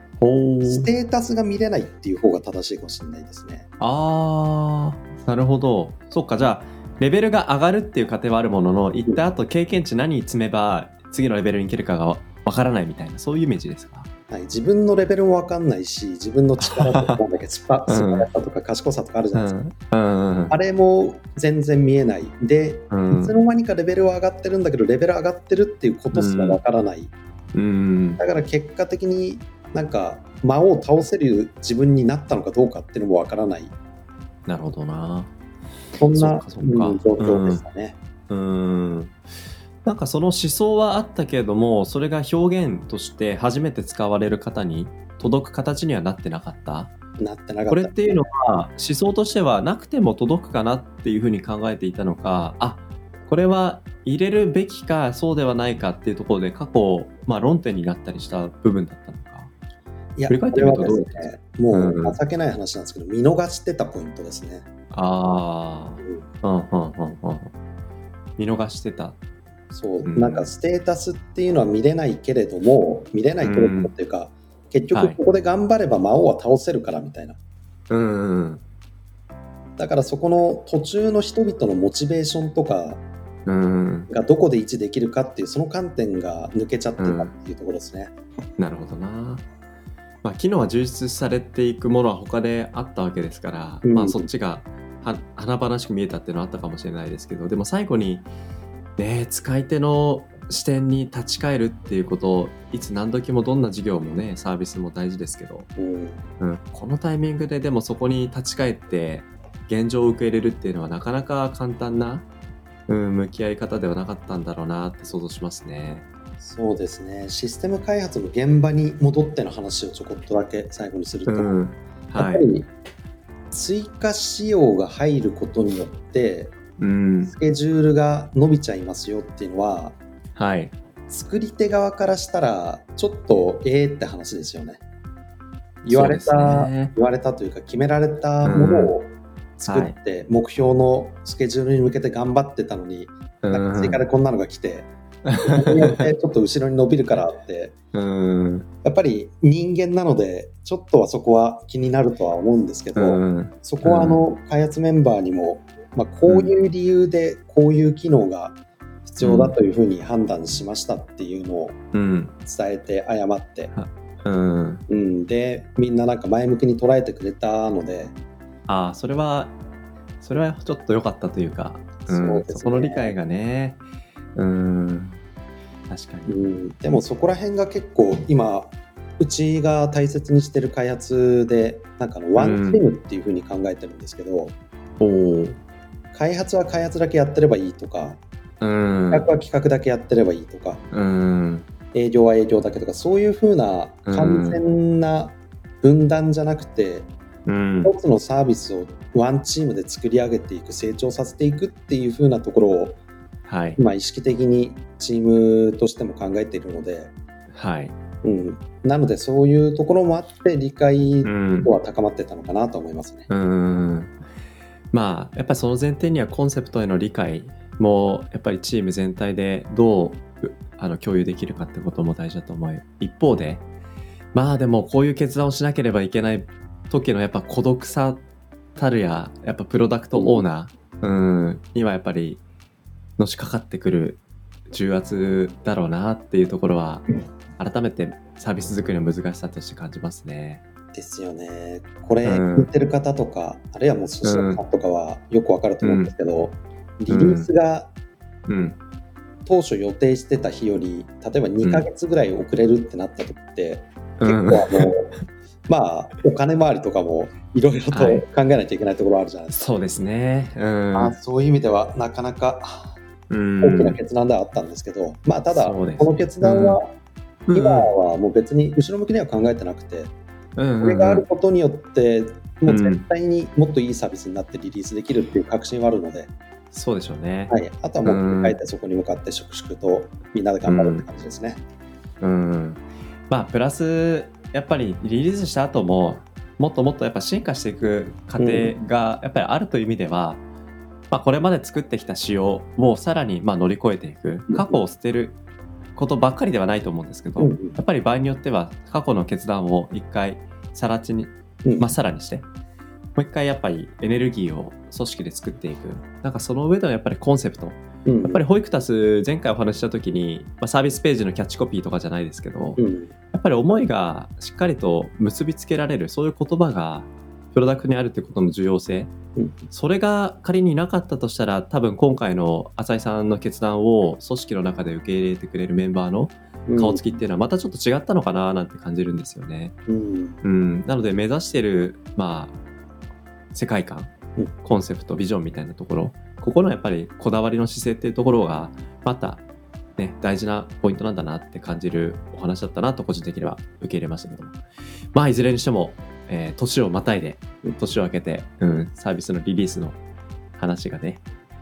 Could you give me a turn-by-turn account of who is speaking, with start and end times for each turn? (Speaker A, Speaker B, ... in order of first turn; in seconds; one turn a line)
Speaker A: 0.2-0.9
Speaker B: 0.7-3.7
Speaker A: 3.8-14.1
Speaker B: 14.3-19.6
Speaker A: 16.6-17.2
Speaker A: 17.9-18.3
Speaker A: 19.3-20.5
Speaker B: 20.5-27.1
Speaker A: 22.9-23.4
Speaker A: 26.1-26.6
Speaker A: 27.5-28.2
Speaker B: 28.2-33.7
Speaker A: 34.5-35.3
Speaker B: 36.0-38.0
Speaker A: 36.1-37.6
Speaker A: 38.3-39.2
Speaker A: 39.9-46.9
Speaker B: 47.2-48.2
Speaker A: 47.7-59.5
Speaker B: 60.2-64.7
Speaker A: 60.3-62.2
Speaker A: 64.9-67.5
Speaker A: 68.4-69.2
Speaker B: 69.7-77.4
Speaker A: 70.0-70.5
Speaker A: 73.4-73.9
Speaker A: 74.9-75.2
Speaker A: 77.9-78.6
Speaker B: 79.8-83.0
Speaker A: 83.5-84.1
Speaker B: 84.1-88.1
Speaker A: 87.0-87.3
Speaker A: 88.6-89.4
Speaker A: 90.2-98.3
Speaker B: 93.8-94.2
Speaker A: 99.0-105.7
Speaker B: 105.8-106.2
Speaker A: 106.4-112.3
Speaker A: 112.9-116.1
Speaker B: 116.4-121.6
Speaker A: 121.3-122.5
Speaker B: 122.2-122.7
Speaker B: 123.5-126.6
Speaker A: 126.8-127.3
Speaker B: 127.3-130.0
Speaker A: 130.4-130.8
Speaker B: 131.1-134.8
Speaker A: 135.8-136.9
Speaker B: 135.9-144.9
Speaker A: 138.4-138.9
Speaker A: 139.7-139.9
Speaker A: 143.4-144.0
Speaker A: 145.2-146.1
Speaker B: 145.4-147.7
Speaker A: 147.9-148.7
Speaker B: 148.8-161.8
Speaker A: 152.9-154.2
Speaker A: 156.3-156.5
Speaker A: 159.2-159.6
Speaker A: 161.9-162.3
Speaker B: 162.4-163.7
Speaker A: 163.8-164.8
Speaker B: 164.9-168.2
Speaker A: 168.7-169.6
Speaker A: 170.2-173.8
Speaker B: 172.1-173.2
Speaker A: 174.4-175.2
Speaker A: 175.9-176.3
Speaker B: 176.3-184.5
Speaker A: 182.4-182.8
Speaker A: 185.0-185.6
Speaker B: 186.1-188.2
Speaker A: 188.6-189.3
Speaker B: 189.1-190.8
Speaker A: 190.9-191.7
Speaker B: 191.9-197.1
Speaker A: 194.1-194.6
Speaker A: 197.5-197.9
Speaker B: 197.8-203.0
Speaker A: 203.5-203.8
Speaker B: 203.8-207.1
Speaker A: 207.5-207.9
Speaker B: 208.2-213.3
Speaker A: 211.2-211.7
Speaker A: 213.3-214.1
Speaker A: 214.9-223.6
Speaker A: 224.3-228.2
Speaker A: 228.8-232.4
Speaker B: 230.2-230.4
Speaker A: 233.2-237.1
Speaker A: 237.6-240.6
Speaker B: 240.9-247.9
Speaker A: 242.2-242.7
Speaker A: 244.2-244.6
Speaker A: 245.8-246.1
Speaker A: 247.1-247.5
Speaker A: 248.5-248.8
Speaker B: 249.5-255.1
Speaker A: 254.2-254.9
Speaker B: 255.7-259.6
Speaker A: 257.9-258.2
Speaker A: 259.5-261.2
Speaker B: 260.9-263.0
Speaker A: 263.3-264.0
Speaker B: 263.6-267.0
Speaker A: 265.5-266.8
Speaker A: 267.5-267.9
Speaker B: 267.5-270.1
Speaker A: 270.6-271.2
Speaker B: 270.8-276.3
Speaker A: 272.7-273.1
Speaker A: 276.7-278.6
Speaker B: 277.5-281.6
Speaker A: 280.6-281.1
Speaker A: 282.2-290.4
Speaker B: 288.4-288.8
Speaker A: 291.1-295.4
Speaker B: 294.5-294.8
Speaker A: 296.0-302.5
Speaker B: 297.4-297.8
Speaker B: 301.6-301.9
Speaker A: 303.2-312.8
Speaker B: 308.1-308.4
Speaker B: 312.8-313.1
Speaker A: 313.3-319.1
Speaker B: 319.4-319.7
Speaker A: 319.7-329.8
Speaker B: 326.7-327.2
Speaker B: 329.9-330.4
Speaker A: 330.4-332.6
Speaker A: 333.5-334.1
Speaker A: 334.6-339.4
Speaker A: 340.0-344.6
Speaker A: 345.1-350.0
Speaker A: 350.6-351.2